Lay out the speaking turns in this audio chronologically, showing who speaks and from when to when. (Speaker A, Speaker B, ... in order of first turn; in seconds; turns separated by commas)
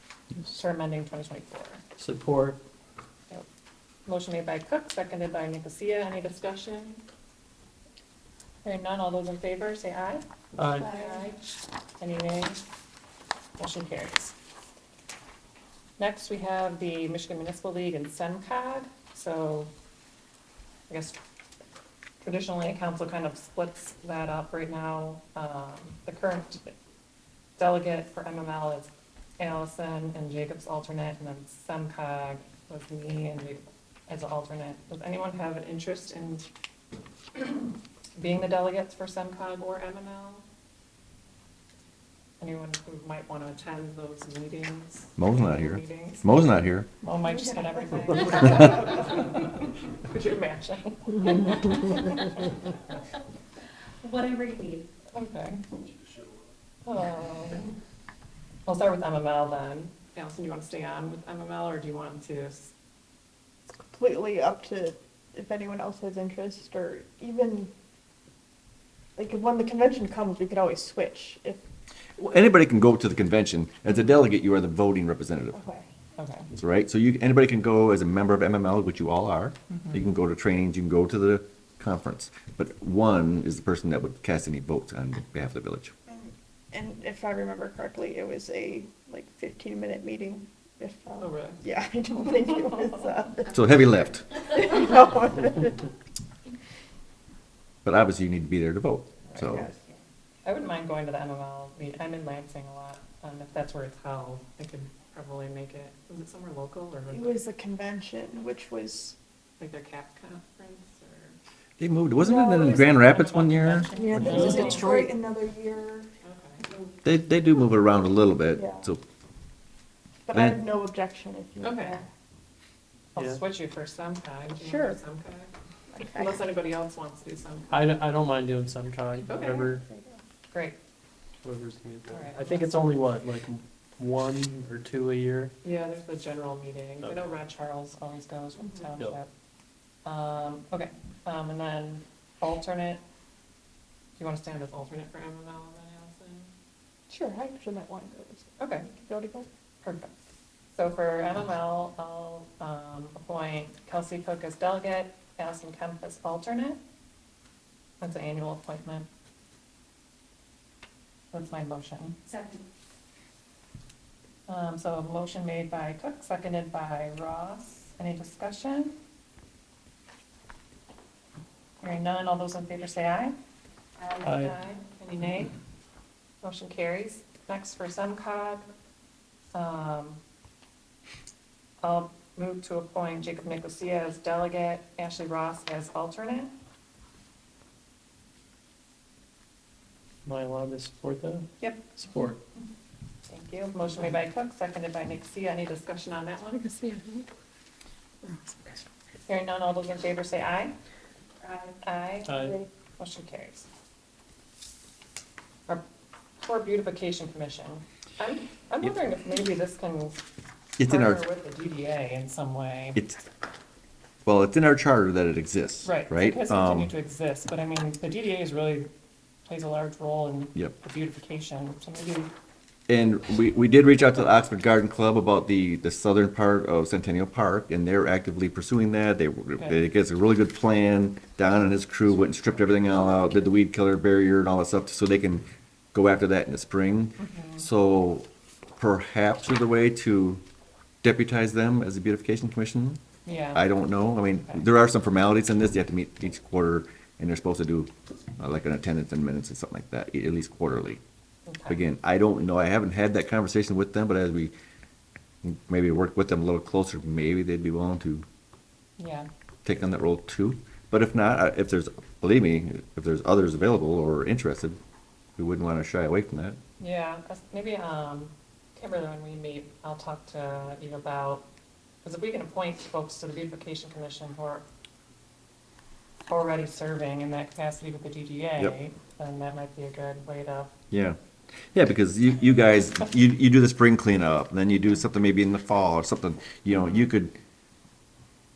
Speaker A: 0.5-1.8, Speaker B: 2.0-2.6, Speaker A: 4.1-7.0, Speaker A: 8.6-11.4, Speaker B: 10.6-10.9, Speaker C: 10.8-11.3, Speaker A: 12.0-12.6, Speaker A: 13.6-14.3, Speaker A: 16.0-19.7, Speaker A: 20.9-21.2, Speaker A: 22.2-26.7, Speaker A: 27.6-36.5, Speaker A: 37.4-40.4, Speaker A: 42.4-46.2, Speaker D: 45.2-46.9, Speaker A: 47.0-52.5, Speaker C: 47.3-48.8, Speaker D: 48.2-48.6, Speaker E: 54.0-54.9, Speaker A: 55.1-55.6, Speaker A: 56.9-57.8, Speaker A: 58.7-62.7, Speaker C: 63.9-67.7, Speaker C: 69.2-71.6, Speaker D: 72.2-75.6, Speaker C: 75.5-75.9, Speaker A: 76.2-76.5, Speaker D: 76.5-85.9, Speaker C: 86.1-93.8, Speaker A: 91.2-91.6, Speaker D: 93.5-94.3, Speaker C: 94.3-95.9, Speaker D: 97.8-99.7, Speaker C: 99.4-99.8, Speaker A: 100.5-107.4, Speaker C: 107.1-109.2, Speaker A: 109.6-111.4, Speaker D: 111.8-113.9, Speaker C: 112.2-112.8, Speaker A: 112.4-115.0, Speaker E: 113.9-115.1, Speaker C: 114.0-116.1, Speaker B: 114.1-114.8, Speaker A: 116.2-116.7, Speaker D: 117.0-119.0, Speaker C: 118.6-118.9, Speaker C: 120.3-122.0, Speaker D: 120.3-120.6, Speaker A: 121.6-122.0, Speaker A: 123.1-125.5, Speaker C: 124.6-125.0, Speaker C: 125.9-126.3, Speaker A: 126.0-127.8, Speaker B: 127.7-129.8, Speaker A: 129.3-129.7, Speaker C: 129.8-130.2, Speaker A: 130.5-130.8, Speaker B: 131.4-135.5, Speaker A: 132.1-133.0, Speaker A: 135.6-139.3, Speaker B: 137.0-137.3, Speaker A: 140.1-143.0, Speaker A: 144.2-146.5, Speaker C: 147.1-149.5, Speaker A: 148.6-148.9, Speaker A: 149.8-150.1, Speaker A: 150.7-156.8, Speaker A: 158.0-159.1, Speaker A: 161.3-162.2, Speaker A: 164.5-169.0, Speaker A: 171.8-173.3, Speaker A: 174.2-175.5, Speaker B: 174.2-174.5, Speaker A: 176.4-178.7, Speaker A: 179.5-180.2, Speaker A: 181.8-186.5, Speaker B: 190.2-192.4, Speaker A: 193.3-197.3, Speaker A: 199.3-200.7, Speaker C: 201.4-201.8, Speaker A: 201.8-203.7, Speaker B: 202.3-202.6, Speaker A: 206.4-210.2, Speaker D: 210.8-211.2, Speaker A: 210.9-213.0, Speaker D: 213.0-213.2, Speaker D: 214.2-216.9, Speaker A: 215.8-218.9, Speaker A: 219.5-222.3, Speaker D: 222.9-238.3, Speaker A: 237.2-237.7, Speaker D: 238.8-240.4, Speaker D: 241.0-243.0, Speaker A: 243.3-243.7, Speaker D: 243.5-251.0, Speaker A: 244.4-244.6, Speaker A: 251.5-251.8, Speaker D: 251.7-254.5, Speaker D: 255.4-258.2, Speaker A: 259.0-259.3, Speaker D: 259.6-264.8, Speaker D: 265.4-266.6, Speaker A: 266.8-271.5, Speaker A: 272.0-274.6, Speaker A: 276.3-280.7, Speaker D: 280.9-281.2, Speaker D: 281.7-287.4